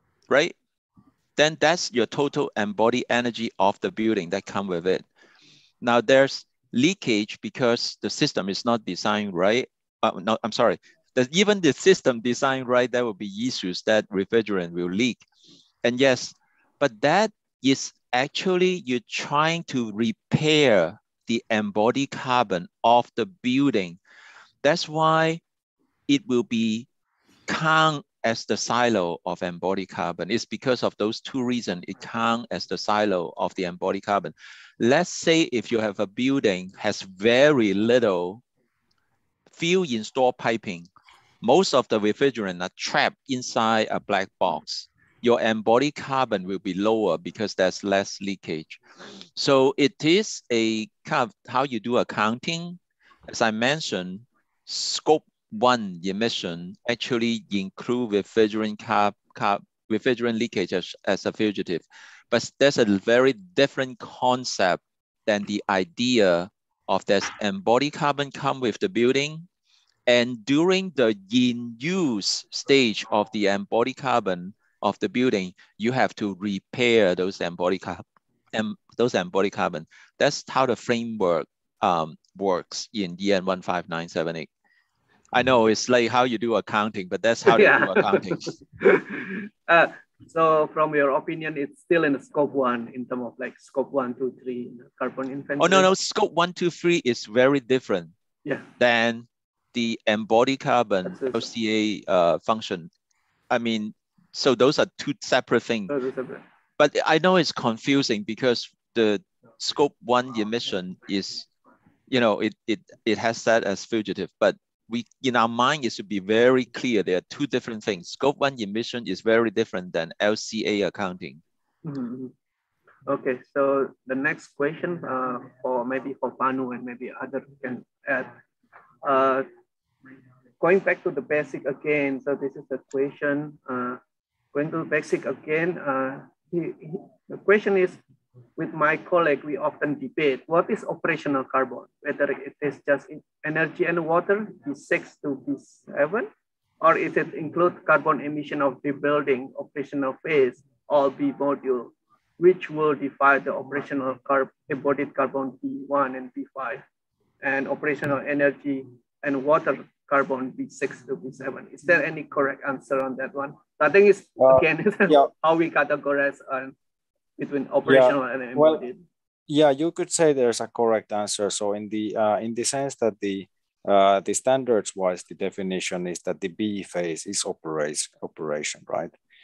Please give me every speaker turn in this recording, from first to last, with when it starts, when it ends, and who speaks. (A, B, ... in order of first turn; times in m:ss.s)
0:01.4-0:05.0 A
0:05.8-0:15.2 A
0:15.8-0:24.0 A
0:24.6-0:25.4 A
0:26.1-0:26.9 A
0:27.5-0:38.4 A
0:39.5-0:40.9 A
0:41.4-0:48.8 A
0:49.4-1:09.4 A
1:10.1-1:24.5 A
1:25.3-1:28.5 A
1:27.4-1:35.9 B
1:35.6-1:38.1 A
1:38.8-1:42.9 A
1:41.1-1:41.4 B
1:43.5-1:45.9 A
1:45.9-1:46.4 B
1:46.8-1:51.5 A
1:52.1-2:01.4 A
2:01.8-2:02.3 B
2:03.1-2:08.3 B
2:09.0-2:09.5 B
2:10.6-2:14.0 B
2:14.5-2:18.0 B
2:18.6-2:26.3 B
2:26.8-2:36.8 B
2:37.4-2:46.7 B
2:44.4-2:45.2 C
2:47.4-2:49.0 B
2:47.8-2:48.8 C
2:49.5-2:59.1 C